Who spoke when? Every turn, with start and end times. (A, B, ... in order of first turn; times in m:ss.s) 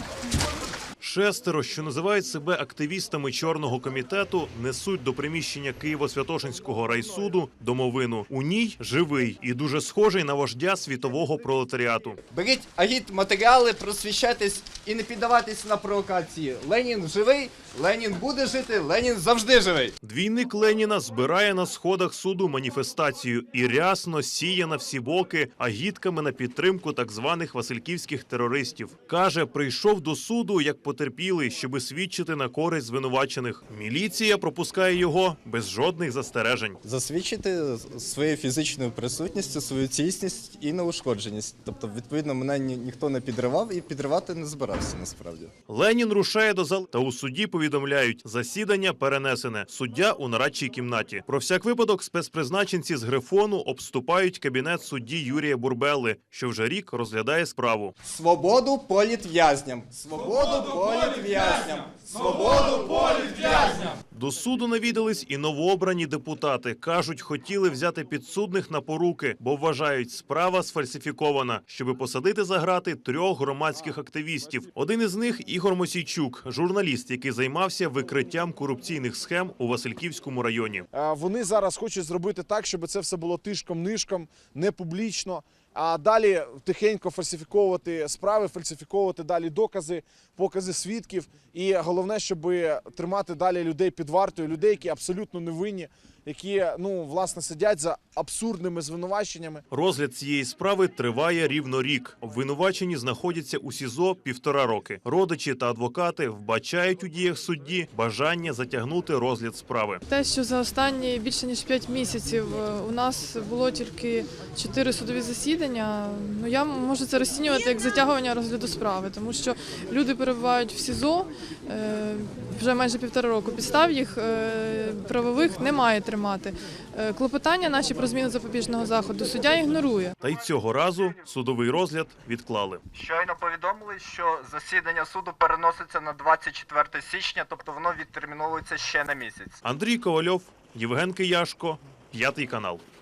0:01.0-0:12.2 A
0:12.3-0:19.9 B
0:20.0-0:36.8 A
0:36.8-0:45.5 B
0:45.7-0:57.9 A
0:58.0-1:04.0 B
1:04.1-1:20.8 A
1:20.9-1:39.6 C
1:39.7-1:50.0 A
1:50.1-2:10.2 D
2:10.2-2:12.8 A
2:12.9-2:19.6 B
2:19.6-2:22.8 A